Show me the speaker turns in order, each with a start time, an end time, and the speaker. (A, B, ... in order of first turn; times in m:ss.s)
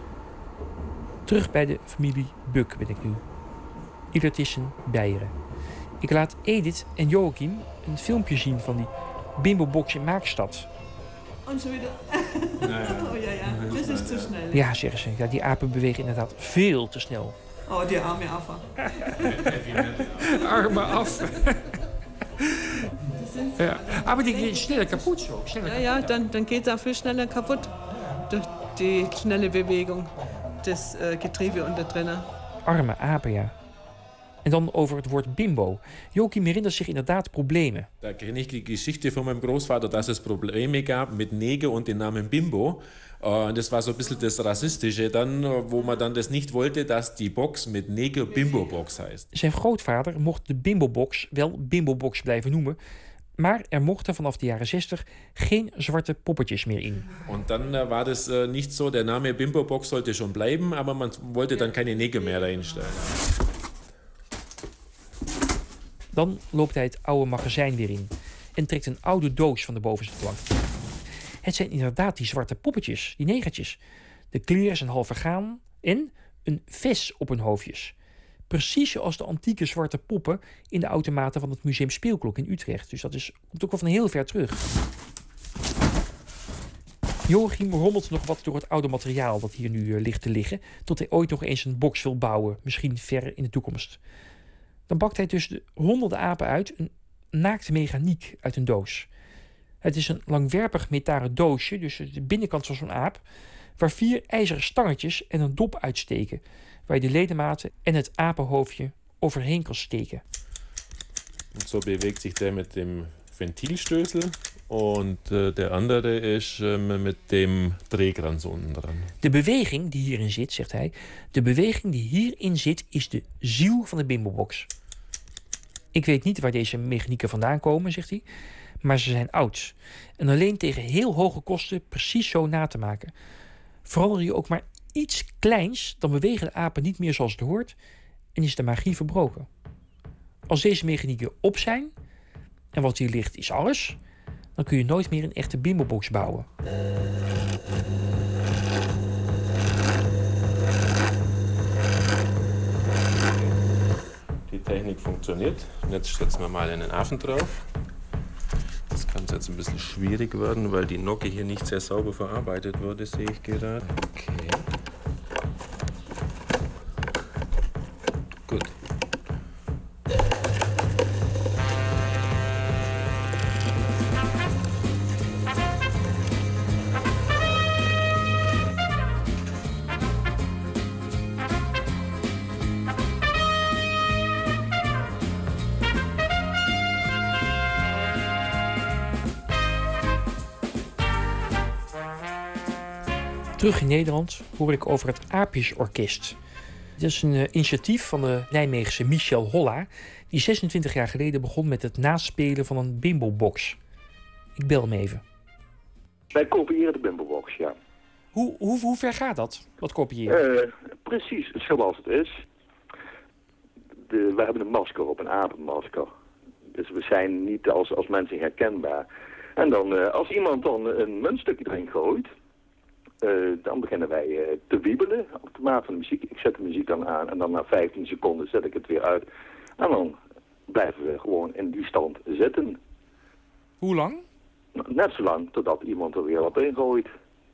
0:01.2-0:03.2 A
0:04.1-0:05.3 A
0:06.0-0:10.7 A
0:11.4-0:14.7 B
0:12.6-0:14.4 C
0:14.5-0:17.4 A
0:17.7-0:19.1 B
0:19.2-0:21.0 C
0:20.2-0:21.7 A
0:23.1-0:32.3 B
0:23.6-0:26.1 A
0:32.6-0:33.5 A
0:34.4-0:37.9 A
0:38.0-0:49.3 C
0:48.3-0:48.7 B
0:49.3-0:52.8 A
0:53.4-0:57.1 A
0:57.2-1:03.1 C
1:01.6-1:02.8 B
1:06.1-1:10.4 A
1:11.4-1:13.8 A
1:14.3-1:17.9 A
1:18.5-1:24.6 A
1:27.3-1:34.0 A
1:34.9-1:39.1 A
1:39.8-1:43.2 A
1:43.8-1:50.2 A
1:51.5-1:59.1 C
1:59.2-2:04.7 A
2:05.9-2:08.2 A
2:08.8-2:13.1 A
2:13.8-2:17.8 A
2:18.4-2:19.5 A
2:20.5-2:21.9 A
2:22.7-2:24.0 A
2:24.6-2:26.5 A
2:34.5-2:37.6 C
2:38.9-2:44.6 C
3:13.6-3:16.4 A
3:17.0-3:23.8 A
3:24.6-3:25.2 A
3:26.3-3:27.8 D
3:28.3-3:30.4 A
3:30.3-3:32.3 D
3:34.1-3:36.1 D
3:36.7-3:39.0 D
3:39.6-3:42.3 D
3:43.2-3:49.2 D
3:49.8-3:50.2 D
3:50.7-3:52.8 D
3:53.8-3:54.2 A
3:54.8-3:57.1 D